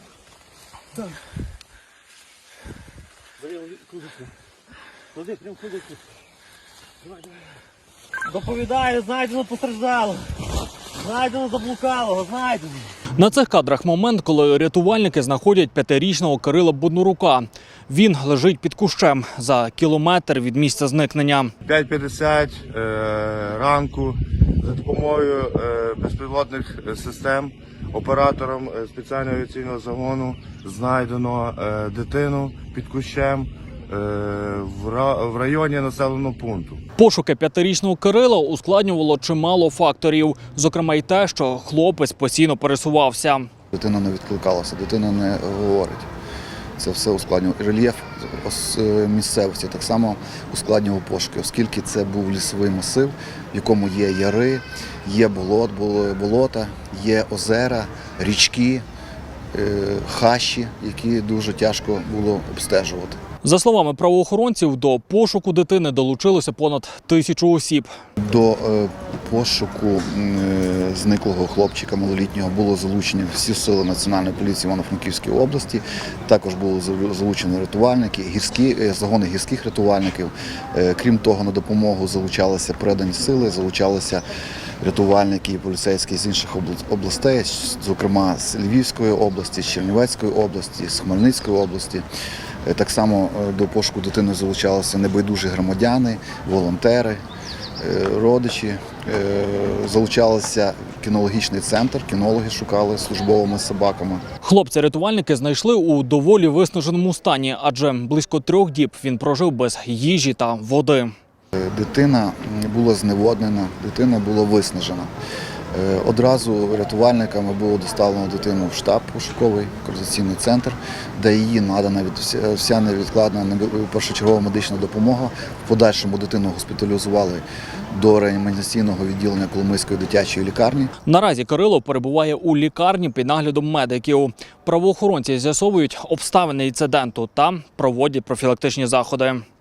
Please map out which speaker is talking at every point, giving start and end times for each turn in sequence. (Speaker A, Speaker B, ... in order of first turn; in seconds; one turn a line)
Speaker A: 3.5-3.9
Speaker A: 5.2-5.9
Speaker A: 8.3-10.0
Speaker B: 8.5-8.9
Speaker A: 11.0-12.6
Speaker B: 11.3-12.4
Speaker C: 13.2-21.5
Speaker B: 21.6-36.8
Speaker C: 37.0-43.5
Speaker D: 43.7-46.1
Speaker D: 46.8-58.8
Speaker D: 59.5-63.2
Speaker C: 63.4-67.9
Speaker D: 68.2-84.2
Speaker D: 84.8-92.0
Speaker D: 92.6-97.2
Speaker D: 97.8-104.2
Speaker C: 104.4-111.1
Speaker D: 111.5-115.1
Speaker D: 115.7-130.9
Speaker C: 131.0-139.4